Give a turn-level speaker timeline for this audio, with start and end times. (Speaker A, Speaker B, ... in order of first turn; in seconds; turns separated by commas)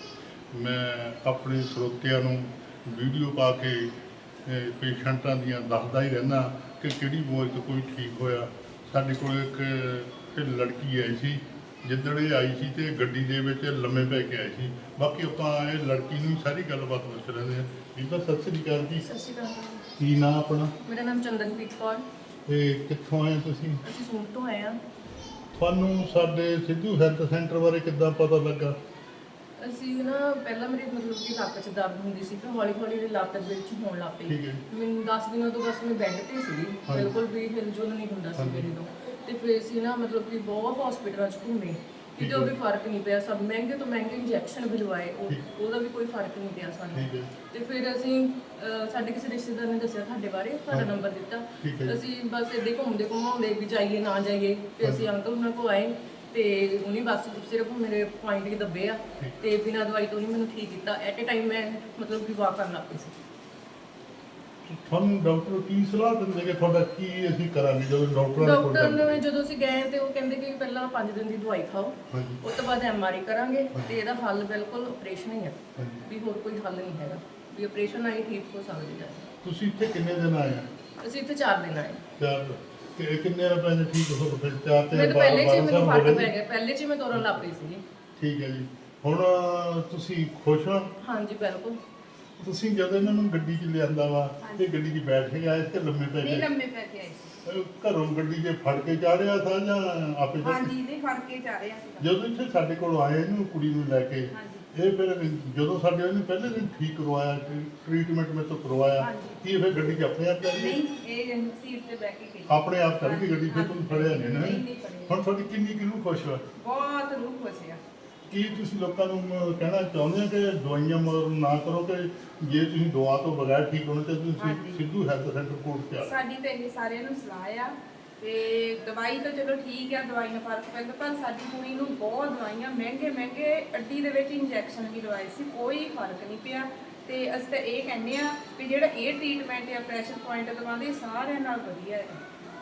Speaker A: 0.5-19.0, Speaker B: 19.0-19.9, Speaker A: 20.0-20.7, Speaker B: 20.8-22.0, Speaker A: 22.5-23.8, Speaker B: 23.8-24.8, Speaker A: 25.5-28.8, Speaker B: 29.6-63.1, Speaker A: 34.3-34.6, Speaker A: 38.4-38.7, Speaker A: 42.2-42.5, Speaker A: 46.9-47.3, Speaker A: 51.6-52.0, Speaker A: 64.6-69.2, Speaker B: 68.4-79.3, Speaker A: 72.1-72.4, Speaker A: 75.8-76.0, Speaker A: 79.4-80.7, Speaker B: 81.0-82.0, Speaker A: 82.2-86.3, Speaker B: 84.9-87.8, Speaker A: 87.1-87.4, Speaker A: 88.2-90.9, Speaker B: 91.0-91.8, Speaker A: 92.4-96.5, Speaker C: 94.4-94.7, Speaker C: 96.1-97.3, Speaker A: 97.4-100.7, Speaker C: 100.4-102.1, Speaker A: 102.0-110.8, Speaker C: 104.3-104.7, Speaker C: 109.0-109.4, Speaker C: 110.5-115.2, Speaker A: 112.5-116.4, Speaker C: 116.5-117.8, Speaker A: 118.3-126.2, Speaker C: 124.4-124.8, Speaker C: 126.0-142.2